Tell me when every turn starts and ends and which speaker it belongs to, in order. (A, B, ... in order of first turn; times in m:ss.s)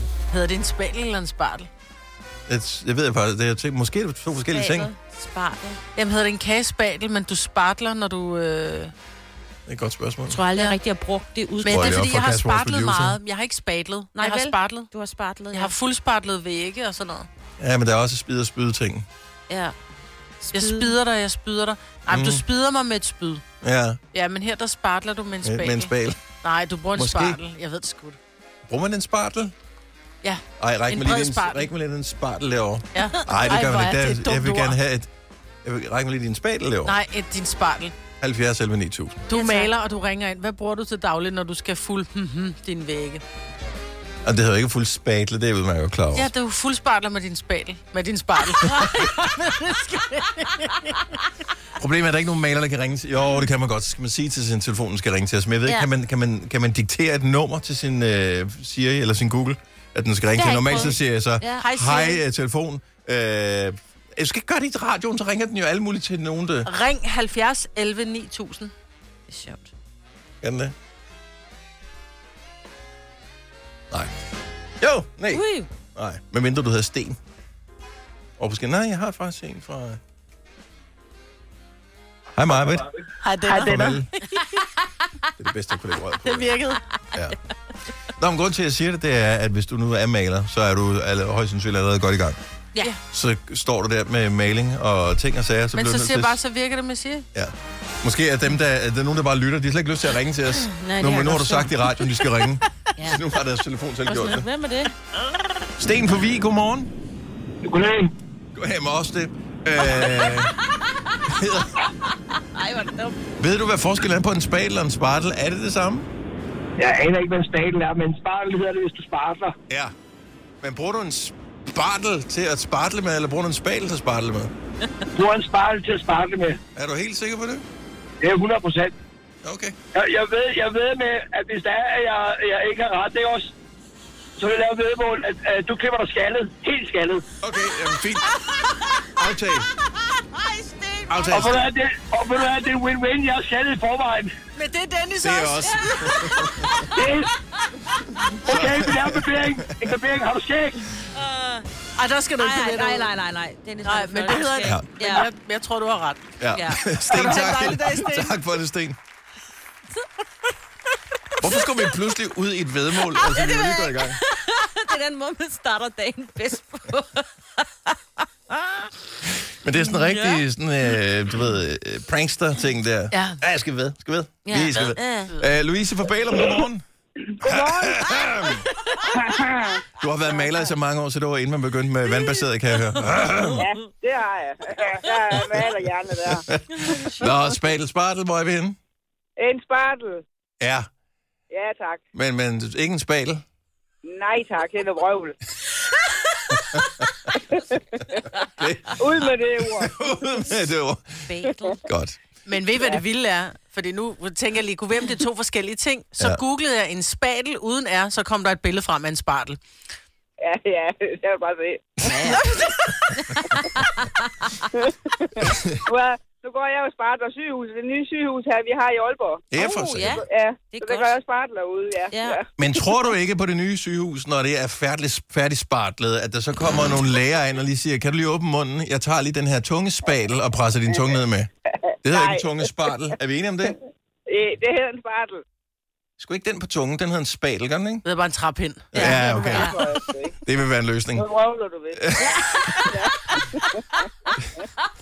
0:00.3-0:01.7 A
0:02.5-0:04.9 B
0:04.5-0:05.8 C
0:05.9-0:08.9 A
0:09.6-0:10.4 B
0:10.3-0:12.0 C
0:11.6-0:14.9 A
0:11.6-0:13.2 B
0:14.1-0:15.7 C
0:15.5-0:17.3 A
0:17.6-0:19.0 B
0:19.5-0:19.7 C
0:20.4-0:21.0 C
0:20.5-0:23.4 A
0:22.1-0:22.4 B
0:23.6-0:24.0 B
0:24.1-0:28.2 A
0:25.4-0:26.2 B
0:27.0-0:27.4 B
0:28.7-0:29.5 B
0:30.2-0:31.7 A
0:30.6-0:35.1 B
0:32.9-0:34.8 A
0:35.6-0:37.0 B
0:36.8-0:37.9 A
0:38.2-0:39.2 B
0:39.3-0:43.2 A
0:39.3-0:39.7 C
0:44.2-0:46.3 B
0:46.1-0:51.2 A
0:51.8-1:06.7 B
1:00.3-1:01.6 C
1:01.6-1:02.2 A
1:06.6-1:08.7 A
1:09.3-1:09.7 C
1:10.4-1:10.7 B
1:14.8-1:17.2 B
1:15.3-1:15.7 C
1:18.4-1:20.0 B
1:22.4-1:23.0 B
1:23.2-1:24.4 A
1:23.5-1:24.1 B
1:25.4-1:27.4 B
1:26.2-1:26.8 A
1:28.2-1:32.4 B
1:33.1-1:36.4 B
1:35.7-1:37.3 A
1:37.3-1:44.5 B
1:40.6-1:41.8 C
1:40.8-1:41.1 A
1:43.0-1:43.2 C
1:44.0-1:44.9 C
1:45.8-1:46.9 B
1:47.6-1:48.1 D
1:48.5-1:50.5 B
1:49.8-1:51.0 C
1:51.3-1:51.9 B
1:52.3-1:53.2 C
1:53.4-1:56.1 B
1:56.8-1:59.5 D
2:00.6-2:04.5 B
2:05.1-2:06.6 D
2:06.7-2:07.6 B
2:08.2-2:08.9 D
2:09.4-2:09.7 B
2:09.9-2:13.5 D
2:14.4-2:17.2 D
2:17.4-2:18.3 B
2:18.4-2:18.7 A
2:19.1-2:19.7 B
2:20.0-2:21.5 A
2:21.1-2:21.6 B
2:21.3-2:24.3 D
2:24.5-2:26.4 A
2:25.2-2:26.8 B
2:25.7-2:27.2 C
2:26.9-2:27.3 D
2:28.4-2:29.9 B
2:28.4-2:30.9 D
2:31.1-2:31.6 C
2:31.9-2:33.1 A
2:32.4-2:35.3 C
2:33.8-2:36.2 A
2:34.6-2:34.9 B
2:36.4-2:39.0 B
2:36.5-2:36.9 C
2:37.1-2:38.4 A
2:37.1-2:37.5 D
2:41.4-2:44.2 B
2:43.1-2:47.9 C
2:48.5-2:48.9 C
2:49.3-2:56.8 B
2:49.8-2:50.4 C
2:53.1-2:53.4 A
2:54.4-2:55.3 C
2:57.4-2:58.7 B
2:57.4-2:59.8 E
3:00.0-3:03.6 B
3:03.5-3:07.0 E
3:06.2-3:08.8 B
3:09.4-3:10.2 E
3:10.6-3:10.9 B
3:11.5-3:12.0 E
3:12.1-3:13.4 B
3:14.0-3:15.4 E
3:16.5-3:17.4 B
3:17.5-3:18.0 E
3:18.3-3:22.2 B
3:19.0-3:20.1 E
3:21.2-3:21.8 C
3:22.4-3:29.6 A
3:30.4-3:31.9 E
3:32.0-3:34.6 C
3:32.0-3:32.5 B
3:34.7-3:39.4 E
3:39.5-3:40.2 B
3:39.5-3:41.2 C
3:40.0-3:42.4 E
3:42.1-3:42.4 C
3:42.6-3:51.5 B
3:51.8-3:52.7 E
3:52.0-3:53.8 B
3:54.3-3:55.4 E
3:56.2-3:58.0 B
3:58.0-3:59.2 A
3:58.9-4:01.3 B
3:58.9-3:59.8 C
3:59.0-4:00.4 E
4:01.2-4:04.6 E
4:02.0-4:03.0 B